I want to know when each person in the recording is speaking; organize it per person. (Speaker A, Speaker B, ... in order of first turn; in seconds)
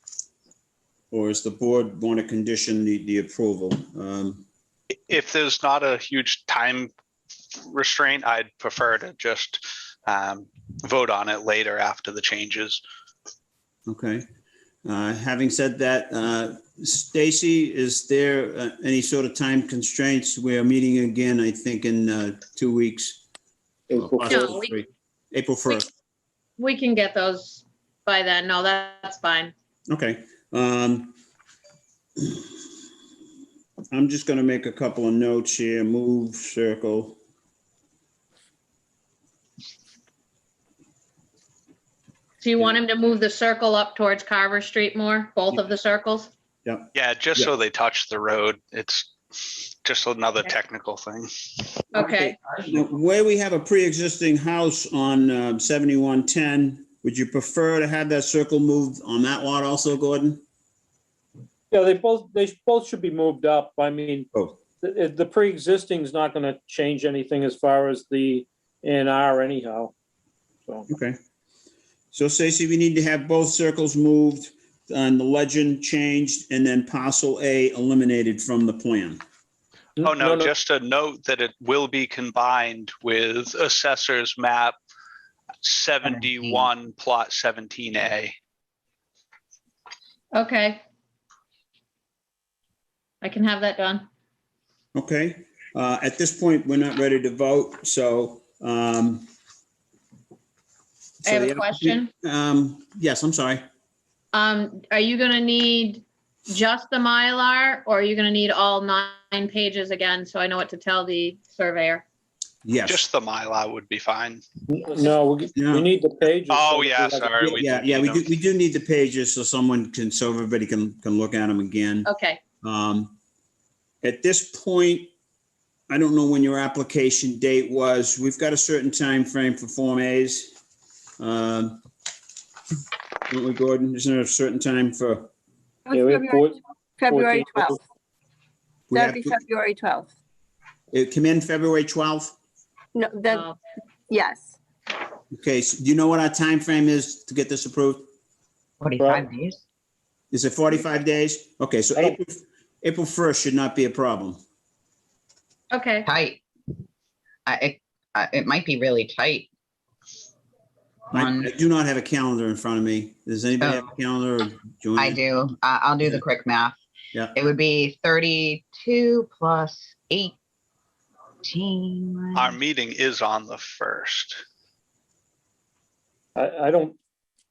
Speaker A: 1.1-4.5, 13.9-14.2, 14.8-23.2, 23.9-25.9, 29.9-31.1, 33.9-37.2, 46.6-47.5, 52.7-60.4, 70.9-71.2, 72.1-79.2, 94.9-99.3, 101.2-103.6, 112.6-113.0, 115.5-115.9, 117.4-122.1, 122.6-123.2, 124.0-125.1, 125.9-130.5, 131.2-131.8, 133.3-135.3, 138.9-139.4, 140.9-142.3, 145.3-148.1, 150.3-154.4, 161.1-165.2
Speaker B: 5.1-6.9, 7.7-12.8, 46.9-51.9, 80.0-84.8, 85.6-88.3, 112.9-114.4, 116.5-118.3, 172.3-174.4
Speaker C: 23.9-24.5, 61.7-64.3, 64.8-69.9, 80.0-80.5, 114.7-117.4, 135.9-137.8, 149.0-149.2, 176.3-177.0
Speaker D: 24.3-24.7, 26.6-29.5, 42.4-46.3, 51.9-52.4, 90.3-90.8, 93.2-94.1, 101.2-102.1, 104.3-112.0, 122.0-122.4, 155.7-156.1
Speaker E: 135.9-137.8, 138.9-140.1, 142.9-143.4, 144.1-144.5
Speaker F: 148.8-149.6, 156.1-156.4, 157.4-159.5, 161.1-161.5, 163.6-163.9, 165.0-166.8, 167.3-170.3, 171.4-172.6